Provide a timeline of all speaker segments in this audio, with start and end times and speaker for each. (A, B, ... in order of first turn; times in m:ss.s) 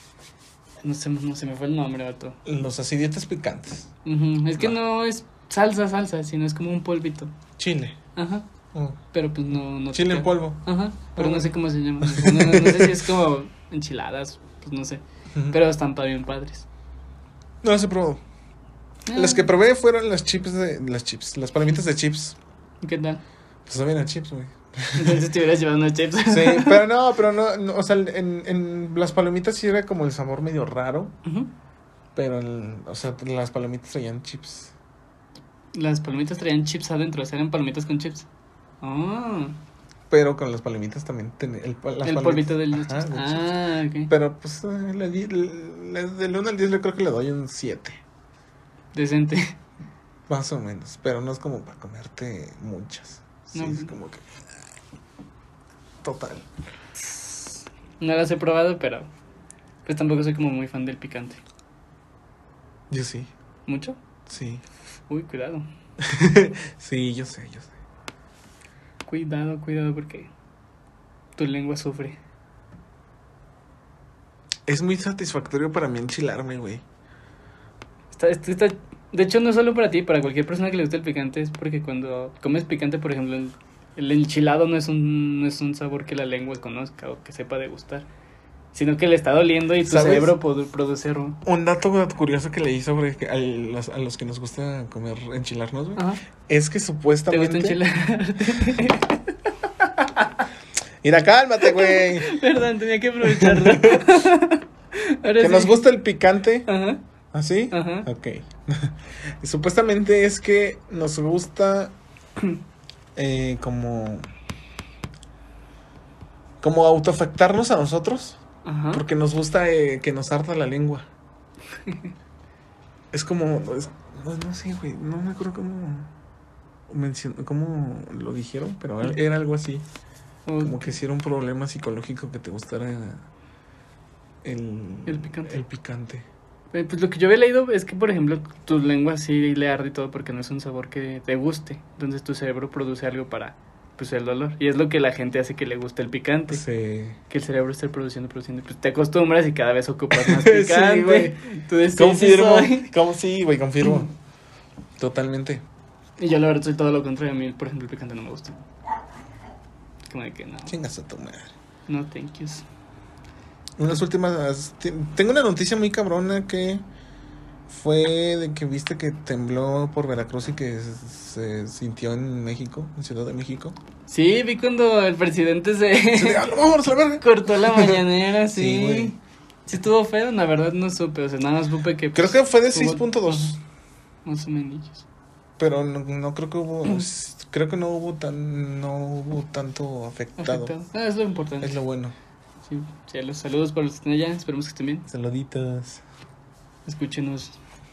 0:00.8-0:02.4 A
0:02.4-0:03.9 B
0:04.0-0:07.3 A
0:07.6-0:08.0 B
0:08.2-0:08.5 A
0:08.7-0:09.0 B
0:09.1-0:16.7 A
0:09.5-0:10.6 B
0:11.2-0:13.1 B
0:15.3-0:15.6 B
0:17.6-0:18.2 B
0:19.1-0:19.5 A
0:19.1-0:22.4 B
0:22.8-0:23.2 A
0:23.7-0:25.3 B
0:25.0-0:26.8 A
0:26.3-0:31.1 B
0:31.2-0:31.5 A
0:32.2-0:34.7 B
0:35.7-0:38.3 A
0:38.8-0:39.6 A
0:40.1-0:43.6 B
0:42.0-0:44.1 A
0:44.1-0:48.0 B
0:48.9-0:49.6 A
0:50.3-0:54.3 B
0:53.5-0:53.9 A
0:56.0-0:56.5 B
0:57.0-0:59.1 A
0:59.9-1:01.4 A
1:02.9-1:03.3 B
1:03.7-1:04.0 A
1:04.3-1:04.6 B
1:05.1-1:05.7 A
1:06.0-1:07.7 B
1:09.1-1:10.3 A
1:11.4-1:12.2 A
1:14.7-1:16.8 B
1:18.1-1:28.1 A
1:28.7-1:31.4 A
1:29.8-1:30.4 B
1:31.4-1:37.8 B
1:37.3-1:39.4 A
1:41.0-1:42.4 B
1:41.6-1:45.8 A
1:43.2-1:44.2 B
1:45.4-1:46.7 B
1:46.7-1:47.0 A
1:47.3-1:52.0 B
1:47.7-1:48.1 A
1:53.2-1:54.3 B
1:56.6-1:58.4 B
1:58.6-1:59.0 A
1:58.9-2:01.1 B
2:01.9-2:02.1 A
2:03.1-2:06.1 B
2:06.9-2:09.8 B
2:10.5-2:11.0 A
2:10.6-2:13.3 B
2:14.4-2:16.3 B
2:15.1-2:15.6 A
2:16.7-2:26.6 A
2:26.5-2:27.2 B
2:27.3-2:32.9 A
2:30.1-2:31.4 B
2:32.0-2:34.1 B
2:35.0-2:35.6 B
2:36.2-2:38.6 A
2:40.1-2:40.8 A
2:40.7-2:41.5 B
2:41.9-2:42.7 A
2:43.8-2:46.8 B
2:47.7-2:53.8 B
2:54.1-2:56.5 A
2:56.1-2:59.2 B
2:57.2-3:03.5 A
3:02.2-3:03.6 B
3:04.2-3:05.0 A
3:05.6-3:10.8 B
3:10.4-3:11.8 A
3:11.6-3:12.1 B
3:12.7-3:15.1 A
3:15.1-3:16.0 B
3:16.9-3:17.6 A